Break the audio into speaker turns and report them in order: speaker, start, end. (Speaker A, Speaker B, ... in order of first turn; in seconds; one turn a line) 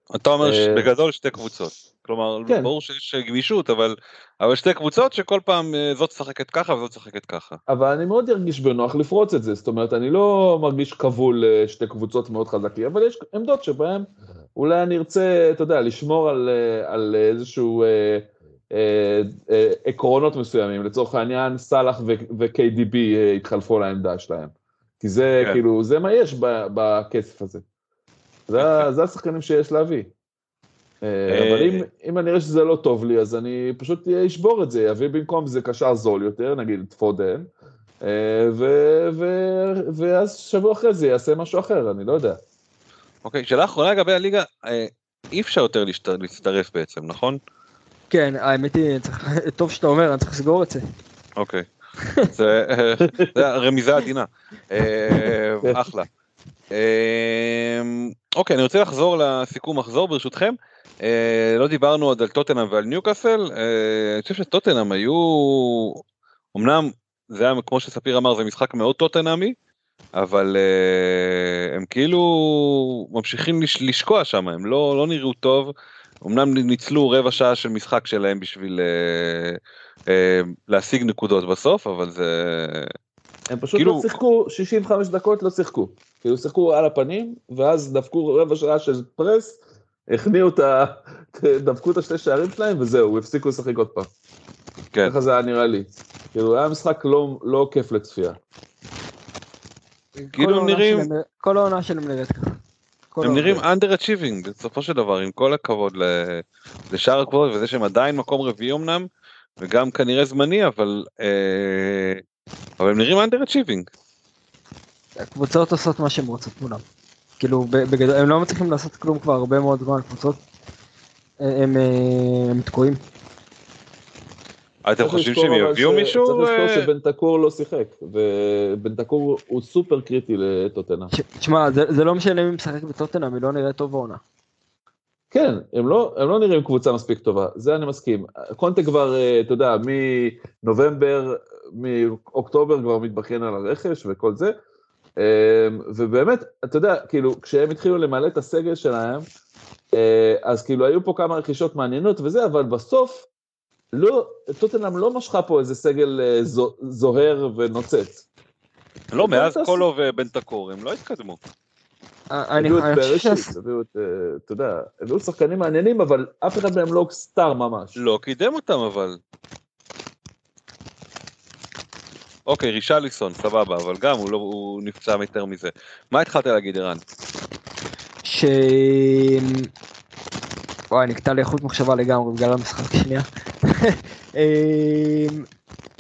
Speaker A: 0.1-7.6
Speaker B: 0.4-0.9
Speaker B: 7.7-27.6
Speaker B: 28.5-30.1
Speaker A: 28.6-28.9
Speaker B: 31.0-37.5
Speaker A: 31.3-31.9
Speaker B: 38.0-42.4
Speaker A: 43.2-47.4
Speaker C: 48.1-50.8
Speaker A: 51.4-51.7
Speaker A: 52.3-56.1
Speaker A: 56.7-66.0
Speaker A: 66.5-69.5
Speaker A: 70.2-75.7
Speaker A: 76.2-79.6
Speaker A: 80.1-82.9
Speaker B: 83.5-94.1
Speaker A: 83.8-84.1
Speaker B: 95.0-98.4
Speaker C: 100.2-102.5
Speaker A: 100.4-101.1
Speaker C: 103.1-103.6
Speaker A: 103.2-109.1
Speaker A: 109.6-112.2
Speaker A: 112.8-113.9
Speaker C: 115.2-116.8
Speaker C: 117.4-120.4
Speaker C: 121.4-123.0
Speaker A: 124.8-126.9
Speaker B: 125.0-131.1
Speaker C: 131.1-134.2
Speaker B: 135.3-144.5
Speaker B: 145.2-149.2
Speaker B: 149.9-153.3
Speaker B: 153.9-158.2
Speaker A: 159.1-161.4
Speaker B: 159.2-159.8
Speaker C: 162.3-163.5
Speaker B: 162.6-168.0
Speaker A: 168.0-169.2
Speaker A: 172.5-177.0
Speaker C: 178.2-179.7
Speaker C: 180.9-185.5